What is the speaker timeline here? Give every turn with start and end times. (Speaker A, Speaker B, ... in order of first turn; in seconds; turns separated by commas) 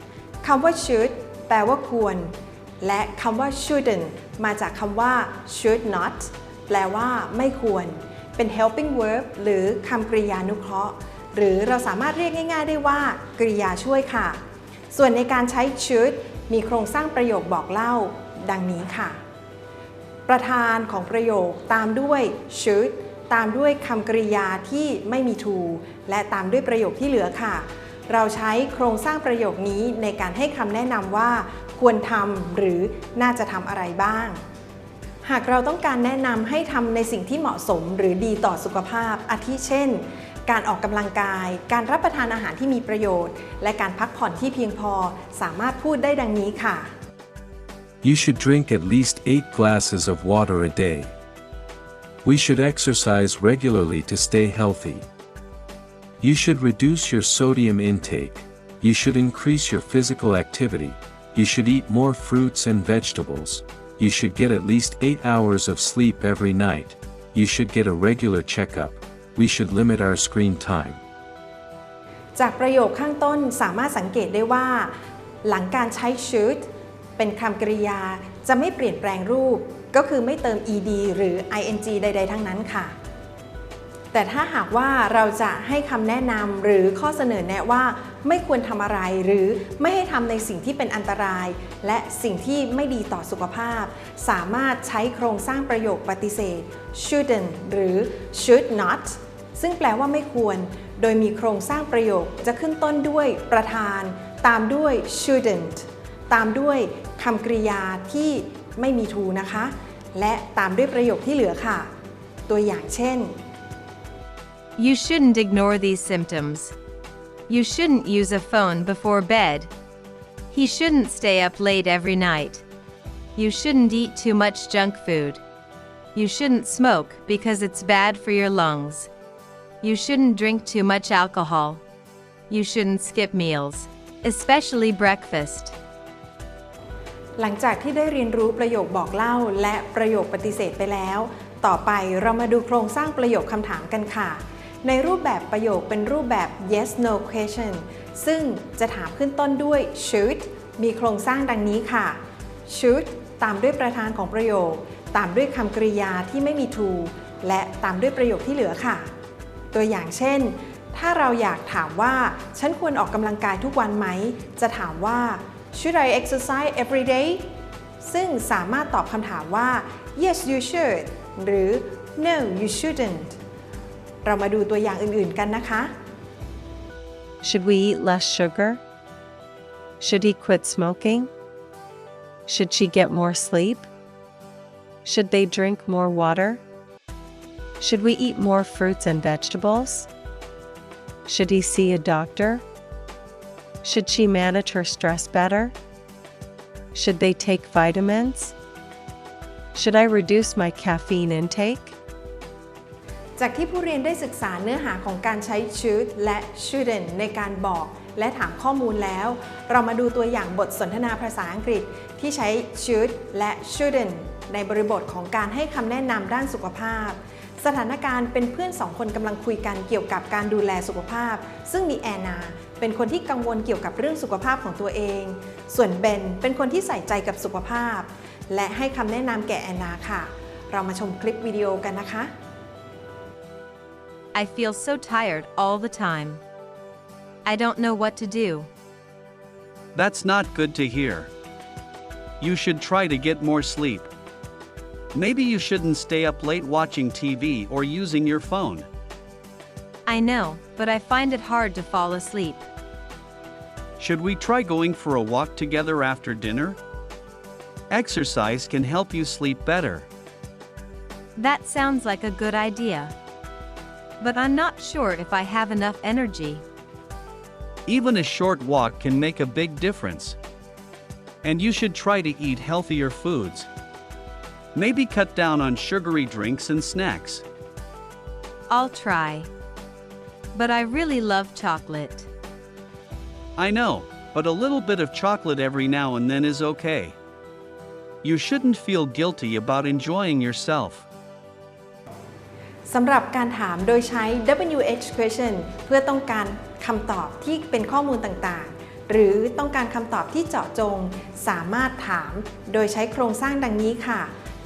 Speaker A: 0.4-14.4, Speaker A: 14.9-19.2, Speaker A: 20.3-34.4, Speaker A: 35.2-46.9, Speaker B: 48.0-51.1, Speaker B: 52.2-55.1, Speaker B: 56.2-71.0, Speaker A: 72.4-74.9, Speaker A: 75.4-83.0, Speaker A: 84.1-111.9, Speaker A: 112.5-113.3, Speaker C: 114.8-116.7, Speaker C: 117.5-119.7, Speaker C: 120.5-122.7, Speaker C: 123.4-125.4, Speaker C: 126.2-129.1, Speaker C: 129.8-131.8, Speaker C: 132.5-135.8, Speaker A: 137.4-159.1, Speaker A: 159.7-167.5, Speaker A: 168.0-173.4, Speaker A: 174.2-175.9, Speaker D: 177.4-178.8, Speaker D: 180.0-181.3, Speaker D: 182.5-183.9, Speaker D: 185.1-186.6, Speaker D: 187.8-190.1, Speaker D: 191.3-192.6, Speaker D: 193.8-195.8, Speaker D: 196.9-198.5, Speaker D: 199.8-201.9, Speaker A: 203.4-232.3, Speaker C: 234.3-236.4, Speaker C: 237.4-238.7, Speaker E: 239.9-241.3, Speaker E: 242.4-244.1, Speaker E: 245.1-248.9, Speaker C: 250.1-252.7, Speaker E: 254.0-256.8, Speaker E: 257.9-260.1, Speaker C: 261.4-263.1, Speaker C: 264.2-266.6, Speaker E: 267.9-270.4, Speaker E: 271.4-273.7, Speaker E: 274.8-277.4, Speaker C: 278.7-279.5, Speaker C: 280.5-282.3, Speaker E: 283.6-287.2, Speaker E: 288.2-291.1, Speaker A: 292.9-304.3